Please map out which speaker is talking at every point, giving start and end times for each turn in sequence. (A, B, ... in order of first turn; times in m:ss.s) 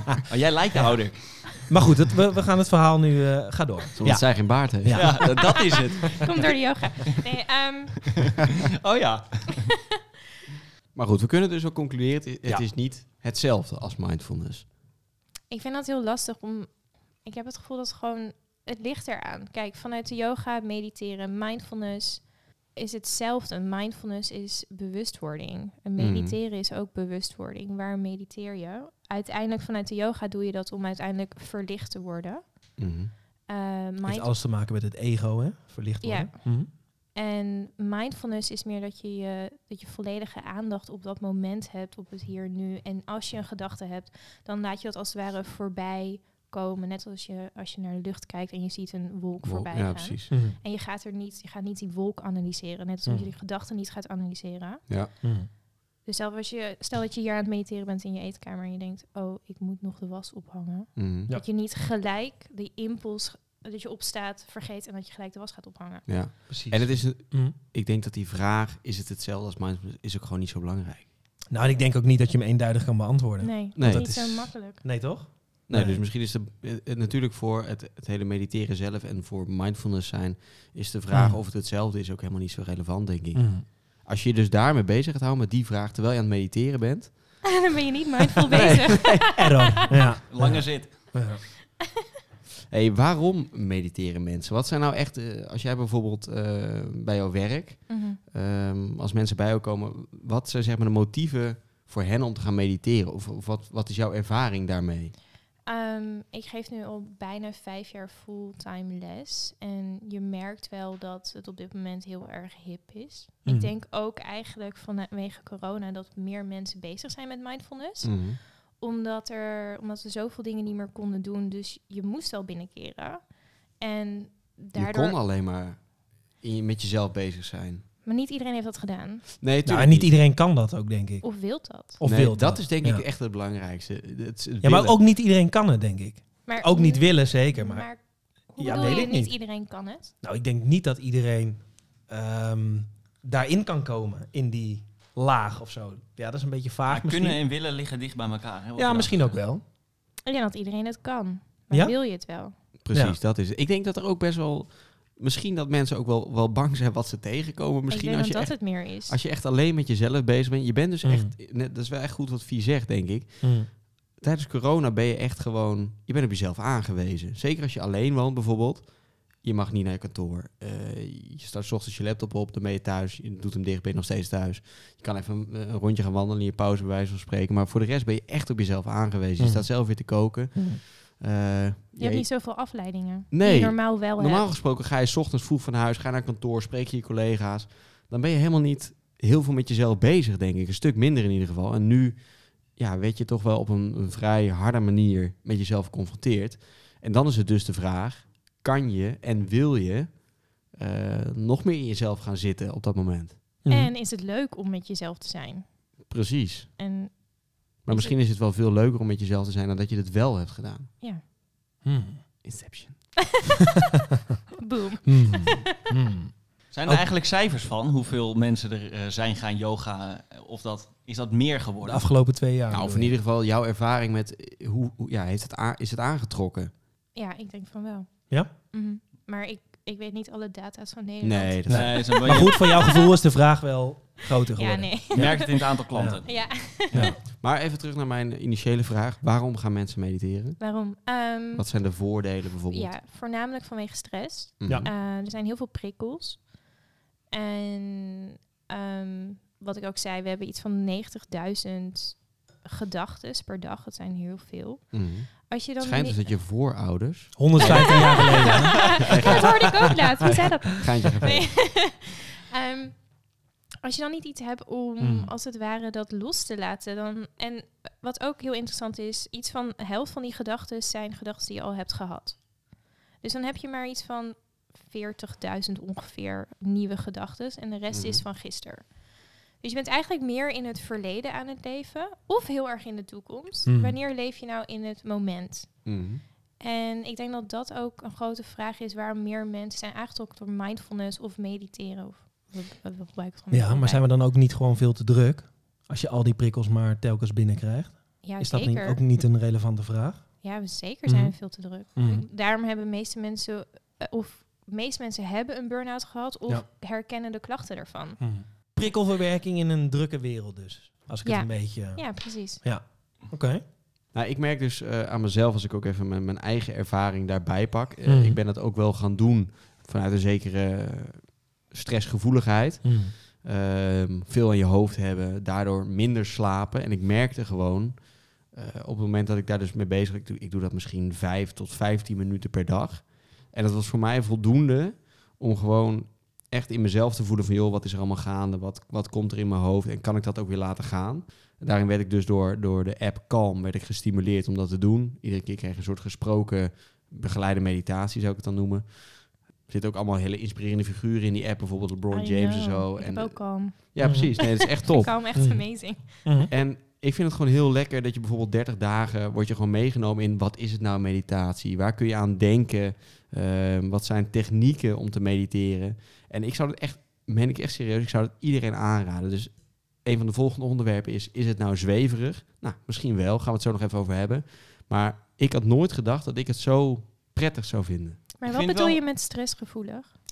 0:00.3-0:01.6 A
0:01.6-0:05.2 B
0:04.0-0:05.4 C
0:04.9-0:06.5 A
0:05.5-0:08.1 D
0:08.3-0:09.7 A
0:11.0-0:14.7 C
0:15.5-0:16.7 D
0:17.2-0:32.4 D
0:26.0-0:26.4 C
0:32.8-0:33.1 C
0:33.5-0:34.3 D
0:34.0-0:36.7 B
0:36.0-0:55.3 D
0:49.4-0:50.3 C
0:50.3-0:50.6 B
0:55.2-0:55.5 B
0:56.0-1:06.1 D
1:01.0-1:01.3 C
1:06.1-1:11.1 C
1:06.5-1:07.6 B
1:11.5-1:16.0 B
1:13.4-1:14.8 D
1:13.8-1:14.5 C
1:15.7-1:27.5 C
1:21.1-1:21.4 B
1:23.4-1:23.6 B
1:27.5-1:30.0 D
1:28.5-1:29.4 C
1:29.3-1:31.4 B
1:30.2-1:31.2 A
1:32.7-1:45.1 C
1:37.9-1:38.2 D
1:45.7-2:03.3 D
1:53.4-1:53.7 B
1:58.0-1:58.4 C
2:03.8-2:05.2 D
2:04.8-2:07.8 C
2:08.0-2:09.2 D
2:09.4-2:10.1 C
2:09.6-2:11.2 B
2:11.2-2:12.0 D
2:12.0-2:13.0 B
2:12.0-2:15.0 C
2:14.6-2:17.9 B
2:16.5-2:20.1 D
2:18.6-2:19.3 B
2:20.2-2:27.4 B
2:26.9-2:29.4 A
2:28.8-2:29.6 B
2:30.2-2:32.5 D
2:32.8-3:02.3 C
2:37.9-2:39.2 D
2:41.0-2:41.3 B
2:43.4-2:43.7 B
2:59.4-2:59.7 B
3:00.6-3:00.8 B
3:02.0-3:04.5 D
3:03.3-3:20.1 C
3:20.7-3:23.4 C
3:23.6-3:23.9 B
3:23.7-3:25.6 D
3:26.1-3:26.7 C
3:26.8-3:27.2 D
3:27.8-3:28.2 D
3:27.8-3:30.9 C
3:31.8-3:32.2 B
3:32.4-3:33.2 C
3:34.6-3:35.7 D
3:35.0-3:36.3 B
3:36.7-3:42.1 A
3:41.8-3:43.1 B
3:42.7-3:46.7 C
3:47.2-3:53.2 D
3:51.2-3:52.1 C
3:51.7-3:55.4 B
3:51.7-3:52.6 A
3:54.5-3:57.1 D
3:55.1-3:57.1 A
3:55.9-3:56.2 B
3:57.3-4:00.6 C
4:00.6-4:01.7 D
4:01.5-4:02.9 C
4:02.7-4:06.5 D
4:04.6-4:04.9 C
4:07.3-4:16.2 D
4:14.9-4:21.6 C
4:17.4-4:19.5 B
4:17.6-4:23.1 D
4:23.8-4:32.5 D
4:25.0-4:25.3 B
4:33.2-4:38.9 D
4:37.9-4:38.2 C
4:39.6-4:45.8 D
4:43.7-4:44.0 B
4:45.8-4:46.2 C
4:46.6-4:54.0 D
4:53.5-5:00.4 B
4:58.2-4:59.0 D
5:00.4-5:08.2 D
5:01.0-5:02.2 B
5:08.2-5:13.6 B
5:11.2-5:12.6 D
5:14.1-5:55.5 C
5:18.0-5:18.4 B
5:22.8-5:23.1 B
5:52.1-5:56.5 D
5:54.0-5:54.4 B
5:55.4-5:56.5 B
5:56.5-6:18.2 C
6:18.4-6:20.1 D
6:18.5-6:19.0 A